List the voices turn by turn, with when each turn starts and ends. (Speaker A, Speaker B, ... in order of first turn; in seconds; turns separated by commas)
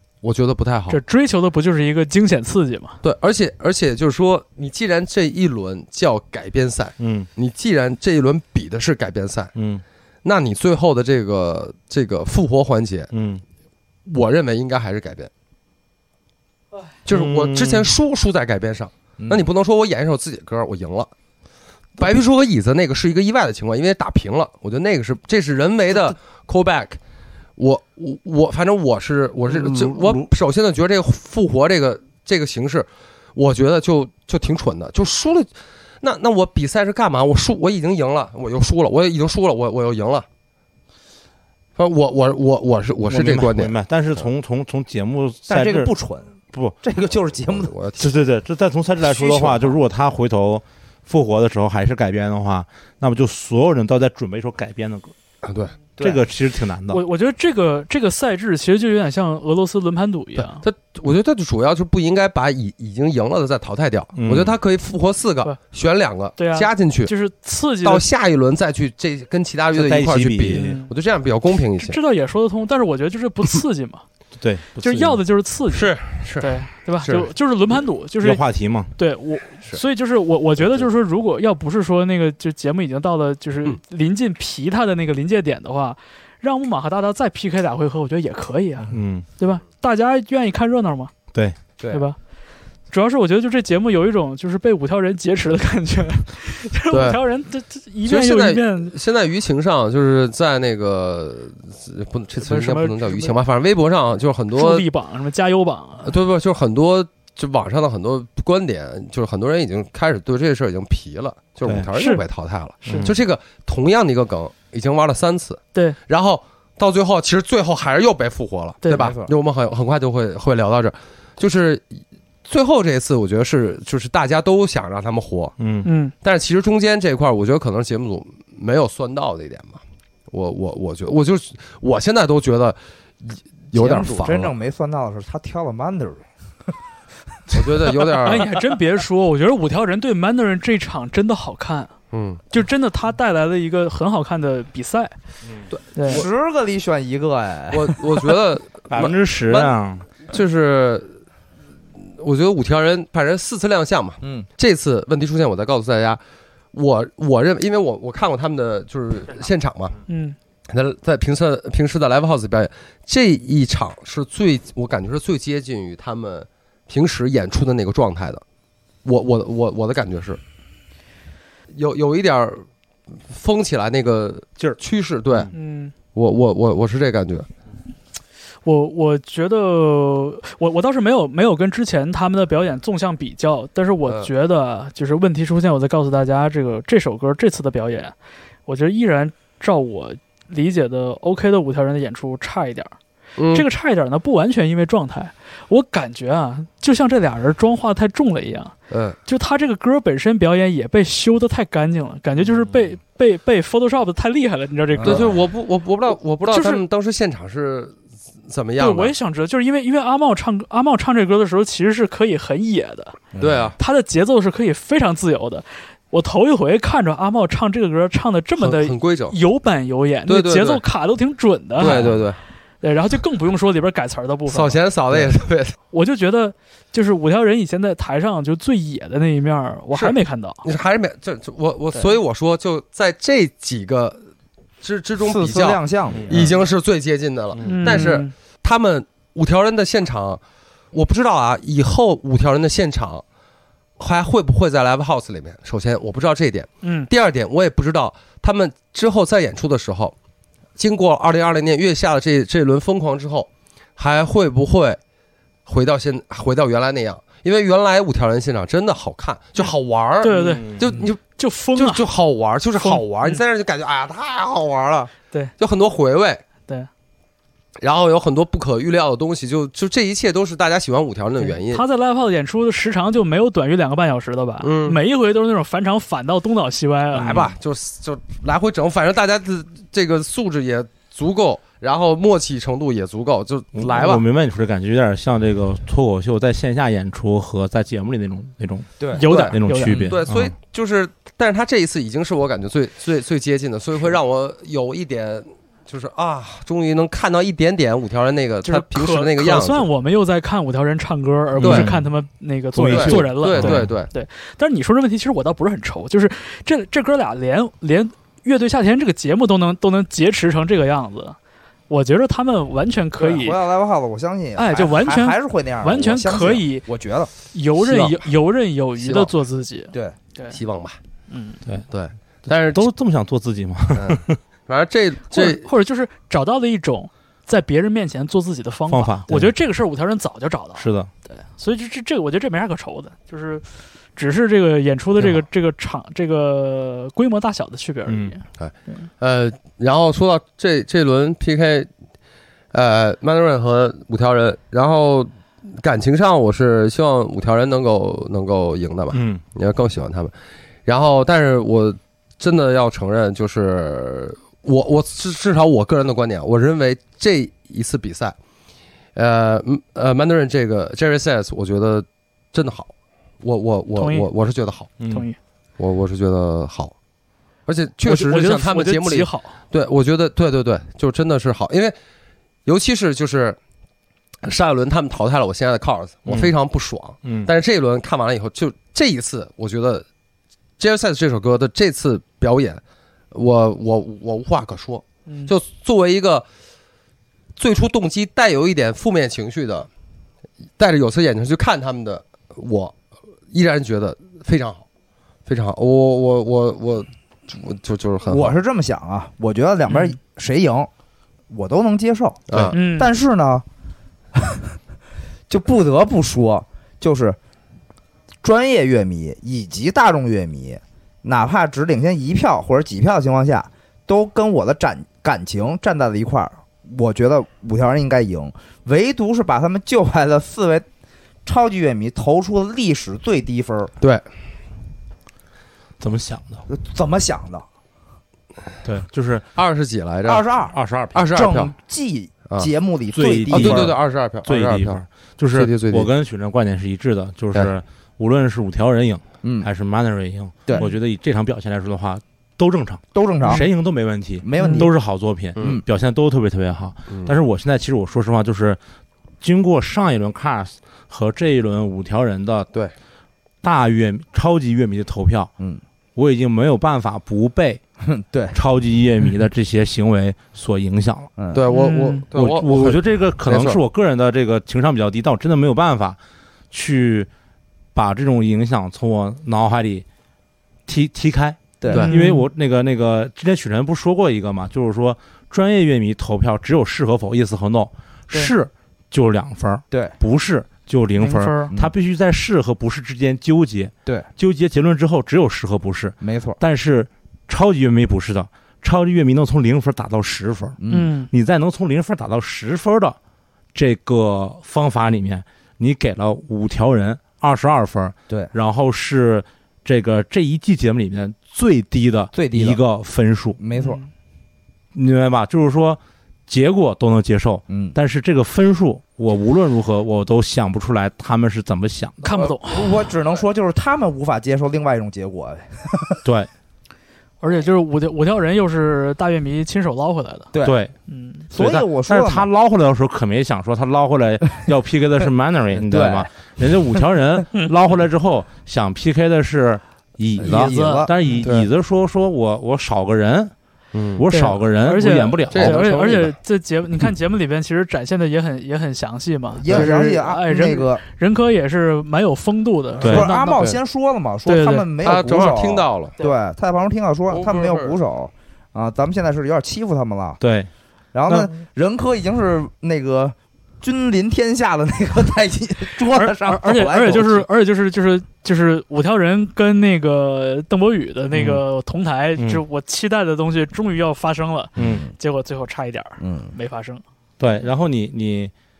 Speaker A: 0.2-1.0, Speaker B: 0.9-3.0, Speaker A: 3.0-9.5, Speaker C: 7.0-7.3, Speaker C: 9.6-9.8, Speaker A: 10.2-13.1, Speaker C: 13.1-13.4, Speaker A: 14.1-15.3, Speaker A: 17.0-21.1, Speaker C: 17.1-17.9, Speaker D: 19.2-19.4, Speaker A: 22.0-27.0, Speaker A: 27.6-35.5, Speaker C: 29.5-30.2, Speaker A: 36.0-40.2, Speaker A: 41.8-44.3, Speaker C: 43.1-45.9, Speaker D: 45.5-47.7, Speaker A: 47.5-48.1, Speaker C: 48.0-55.1, Speaker D: 49.0-49.8, Speaker A: 55.4-55.8, Speaker D: 56.0-56.2, Speaker C: 56.0-57.0, Speaker B: 56.9-60.6, Speaker A: 60.4-67.1, Speaker C: 64.1-64.5, Speaker B: 66.3-68.0, Speaker A: 67.8-72.0, Speaker C: 69.7-70.8, Speaker B: 70.5-70.9, Speaker B: 71.8-74.0, Speaker C: 74.4-75.2, Speaker B: 74.8-91.1, Speaker A: 75.7-76.5, Speaker A: 77.0-77.3, Speaker C: 78.2-78.9, Speaker C: 88.9-89.2, Speaker D: 91.8-92.0, Speaker B: 91.9-92.2, Speaker B: 92.9-98.9, Speaker A: 96.9-97.2, Speaker A: 98.0-104.9, Speaker B: 102.4-103.3, Speaker B: 104.5-106.1, Speaker A: 106.0-125.5, Speaker B: 112.0-112.2, Speaker B: 112.8-113.1, Speaker C: 112.9-113.1, Speaker B: 118.8-119.1, Speaker D: 118.9-119.3, Speaker C: 125.6-125.9, Speaker B: 125.8-126.1, Speaker A: 126.2-134.5, Speaker D: 133.7-136.2, Speaker A: 137.5-138.5, Speaker B: 138.1-141.9, Speaker A: 142.1-142.4, Speaker B: 142.5-145.1, Speaker A: 145.7-146.3, Speaker B: 145.9-146.2, Speaker D: 146.1-148.3, Speaker A: 147.7-151.1, Speaker C: 148.9-150.0, Speaker A: 152.1-156.2, Speaker D: 154.2-154.5, Speaker A: 156.7-160.0, Speaker B: 160.1-160.3, Speaker A: 160.7-168.4, Speaker A: 169.0-170.4, Speaker A: 171.7-172.6, Speaker A: 173.3-175.5, Speaker B: 175.5-175.9, Speaker A: 176.1-177.5, Speaker B: 178.6-188.1, Speaker B: 188.7-192.9, Speaker A: 193.3-193.7, Speaker B: 193.5-198.7, Speaker A: 198.9-199.2, Speaker B: 199.2-205.3, Speaker D: 204.9-205.3, Speaker A: 205.0-209.1, Speaker B: 206.5-206.8, Speaker B: 208.8-213.2, Speaker D: 213.3-213.7, Speaker A: 213.4-213.8, Speaker B: 213.8-222.2, Speaker A: 218.6-219.4, Speaker A: 220.3-220.8, Speaker A: 221.8-222.4, Speaker B: 222.8-224.8, Speaker A: 224.5-225.8, Speaker B: 225.9-230.6, Speaker A: 229.9-234.2, Speaker A: 234.8-240.4, Speaker D: 235.2-236.6, Speaker C: 236.1-236.4, Speaker C: 237.6-238.1, Speaker B: 237.6-238.3, Speaker A: 240.9-243.2, Speaker A: 244.0-250.1, Speaker B: 246.8-247.1, Speaker A: 250.8-255.0, Speaker A: 255.7-261.2, Speaker B: 260.2-262.1, Speaker C: 260.4-260.8, Speaker A: 261.7-266.4, Speaker B: 262.8-263.4, Speaker A: 267.8-271.8, Speaker B: 271.4-277.5, Speaker A: 274.6-275.0, Speaker A: 277.1-284.2, Speaker C: 283.7-290.5, Speaker D: 289.0-289.2, Speaker B: 289.1-290.0, Speaker A: 289.2-299.9, Speaker D: 289.8-290.1, Speaker B: 298.6-311.4, Speaker C: 301.6-302.1, Speaker A: 301.6-301.9, Speaker C: 302.7-303.9, Speaker A: 302.9-304.1, Speaker B: 311.9-313.6, Speaker D: 313.2-317.3, Speaker B: 314.6-316.9, Speaker B: 317.5-320.6, Speaker A: 319.0-319.3, Speaker D: 319.9-320.2, Speaker A: 320.5-321.0, Speaker B: 321.3-321.6, Speaker A: 321.9-322.9, Speaker C: 322.5-324.4, Speaker A: 323.9-325.7, Speaker B: 325.3-339.0, Speaker C: 328.9-329.5, Speaker C: 330.8-331.1, Speaker C: 338.1-338.3, Speaker A: 338.6-341.9, Speaker A: 342.7-350.3, Speaker C: 349.1-349.4, Speaker A: 350.9-358.4, Speaker A: 359.1-364.9, Speaker B: 363.9-364.3, Speaker C: 365.0-365.2, Speaker B: 365.1-365.4, Speaker A: 365.8-366.9, Speaker A: 367.6-371.9, Speaker B: 368.1-369.6, Speaker A: 372.6-373.6, Speaker A: 374.4-380.0, Speaker C: 377.2-377.5, Speaker A: 380.8-386.4, Speaker B: 385.2-385.5, Speaker A: 387.6-389.9, Speaker A: 390.8-392.9, Speaker A: 393.5-394.8, Speaker A: 395.4-398.5, Speaker D: 398.3-400.9, Speaker D: 401.5-403.6, Speaker A: 402.5-402.8, Speaker B: 402.7-403.1, Speaker D: 404.3-404.8, Speaker D: 405.5-407.4, Speaker D: 408.4-420.9, Speaker D: 421.4-423.9, Speaker C: 426.0-426.6, Speaker D: 426.7-427.6, Speaker C: 428.8-429.4, Speaker A: 429.5-430.4, Speaker D: 430.2-430.8, Speaker C: 430.7-431.3, Speaker A: 431.1-431.7, Speaker D: 431.3-433.9, Speaker C: 433.1-448.8, Speaker A: 433.5-435.0, Speaker A: 435.5-436.1, Speaker D: 439.4-439.7, Speaker D: 443.1-443.7, Speaker D: 444.4-444.9, Speaker B: 444.6-444.8, Speaker A: 445.6-445.8, Speaker A: 447.1-447.4, Speaker C: 449.4-452.7, Speaker C: 453.6-455.5, Speaker C: 456.1-457.8, Speaker D: 458.0-458.6, Speaker C: 458.5-461.3, Speaker D: 461.4-461.6, Speaker A: 461.5-463.8, Speaker B: 461.7-462.2, Speaker C: 462.3-466.2, Speaker C: 466.7-467.3, Speaker C: 467.9-470.0, Speaker C: 470.9-490.8, Speaker D: 471.8-472.1, Speaker B: 471.9-472.5, Speaker B: 481.2-481.7, Speaker D: 486.2-486.6, Speaker D: 490.8-491.1, Speaker B: 490.9-491.3, Speaker C: 491.3-493.2, Speaker C: 493.7-503.6, Speaker D: 502.3-502.8, Speaker D: 503.6-504.0, Speaker B: 503.7-504.1, Speaker C: 504.9-512.2, Speaker D: 507.7-507.9, Speaker B: 512.2-513.0, Speaker D: 512.3-516.2, Speaker C: 516.2-516.5, Speaker B: 517.4-520.5, Speaker D: 520.5-520.8, Speaker C: 520.6-520.9, Speaker B: 521.1-521.4, Speaker D: 521.5-522.5, Speaker C: 521.5-533.5, Speaker D: 525.7-526.3, Speaker D: 530.4-531.1, Speaker B: 530.4-531.3, Speaker A: 531.4-531.7, Speaker A: 533.9-534.2, Speaker C: 534.1-535.8, Speaker B: 534.3-543.6, Speaker A: 535.5-536.3, Speaker D: 539.5-541.0, Speaker D: 543.0-550.4, Speaker C: 543.0-543.3, Speaker B: 544.5-544.9, Speaker A: 545.0-546.1, Speaker A: 547.3-548.0, Speaker C: 550.4-550.7, Speaker D: 551.1-557.5, Speaker B: 556.1-567.0, Speaker C: 561.3-561.6, Speaker C: 564.8-565.0, Speaker D: 564.8-565.1, Speaker D: 566.2-566.5, Speaker C: 567.4-568.5